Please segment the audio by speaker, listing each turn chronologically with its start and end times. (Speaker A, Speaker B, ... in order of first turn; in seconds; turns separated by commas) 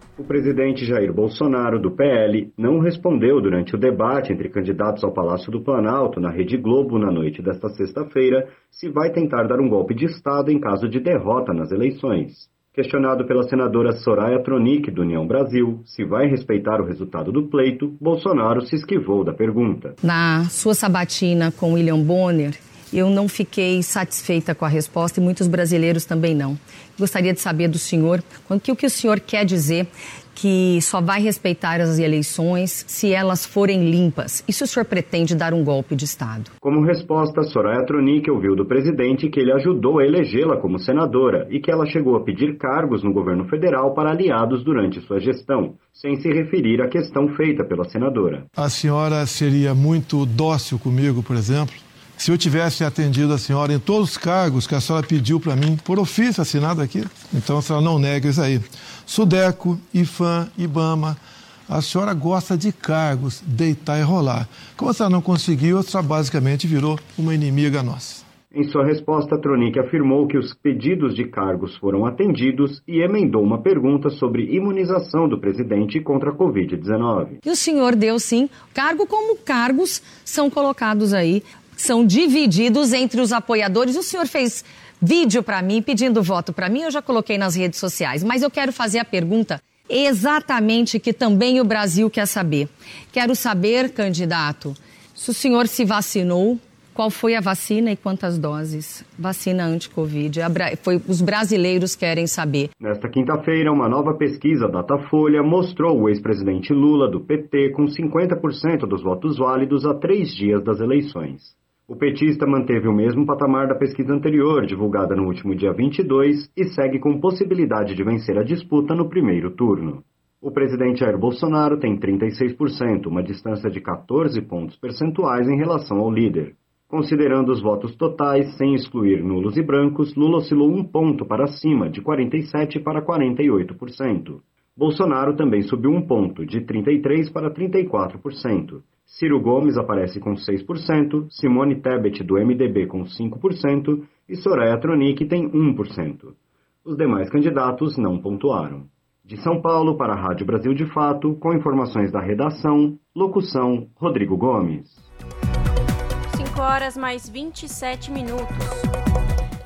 Speaker A: 0.2-20.0, Speaker B: 20.0-36.5, Speaker A: 36.6-48.5, Speaker C: 48.6-68.2, Speaker A: 68.5-77.4, Speaker B: 77.4-102.7, Speaker A: 102.8-155.0, Speaker D: 156.3-158.9